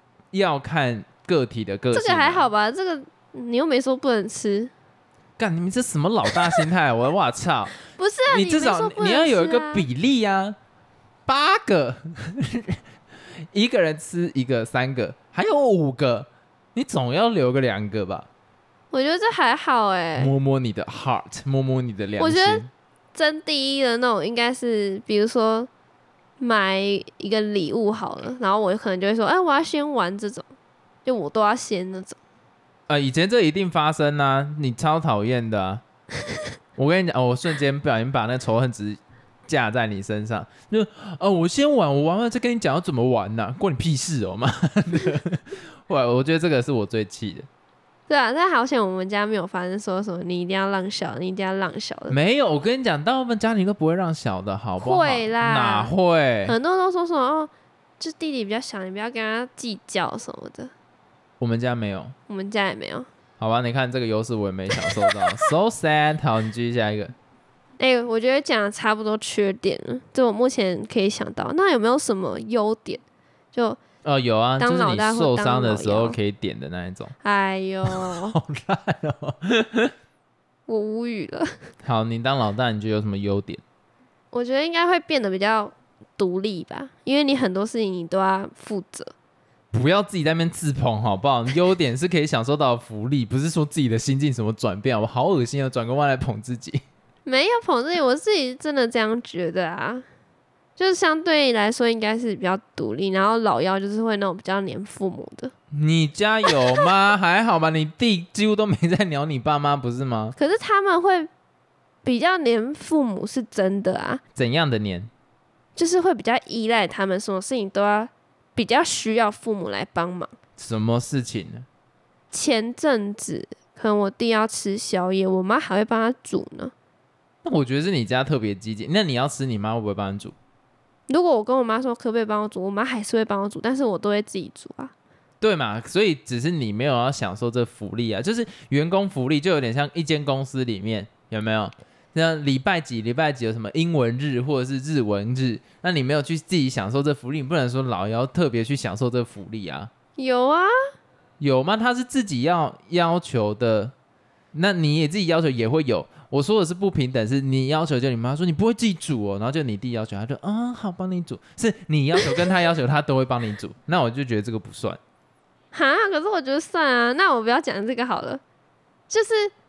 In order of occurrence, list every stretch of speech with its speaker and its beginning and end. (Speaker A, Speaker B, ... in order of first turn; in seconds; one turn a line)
Speaker A: 0.3-2.5
Speaker B: 1.9-4.7
Speaker A: 5.4-7.8
Speaker B: 7.9-9.9
Speaker A: 8.3-10.6
Speaker A: 11.3-12.8
Speaker A: 13.5-18.3
Speaker B: 18.9-20.3
Speaker A: 20.2-22.7
Speaker B: 22.2-25.7
Speaker B: 26.4-30.5
Speaker B: 31.1-32.2
Speaker A: 32.9-35.8
Speaker A: 36.8-47.5
Speaker B: 48.1-52.2
Speaker A: 52.1-56.6
Speaker B: 54.8-55.9
Speaker B: 56.5-60.7
Speaker A: 61.4-62.1
Speaker B: 62.3-63.1
Speaker A: 63.4-67.1
Speaker B: 64.8-65.4
Speaker B: 67.8-73.0
Speaker B: 73.5-73.8
Speaker A: 74.0-77.1
Speaker B: 74.6-76.2
Speaker B: 77.2-78.3
Speaker A: 77.8-79.9
Speaker B: 80.7-81.5
Speaker A: 81.8-83.6
Speaker B: 84.3-89.1
Speaker A: 89.7-96.8
Speaker B: 97.2-100.0
Speaker B: 100.8-105.5
Speaker A: 105.7-110.4
Speaker B: 110.4-111.3
Speaker B: 112.0-114.2
Speaker A: 114.3-115.1
Speaker B: 115.8-120.3
Speaker A: 120.6-121.7
Speaker B: 122.3-126.7
Speaker A: 127.4-130.3
Speaker B: 131.1-134.9
Speaker A: 135.4-149.9
Speaker B: 150.2-150.7
Speaker A: 151.4-153.9
Speaker A: 154.5-165.0
Speaker B: 165.7-168.4
Speaker B: 169.1-169.5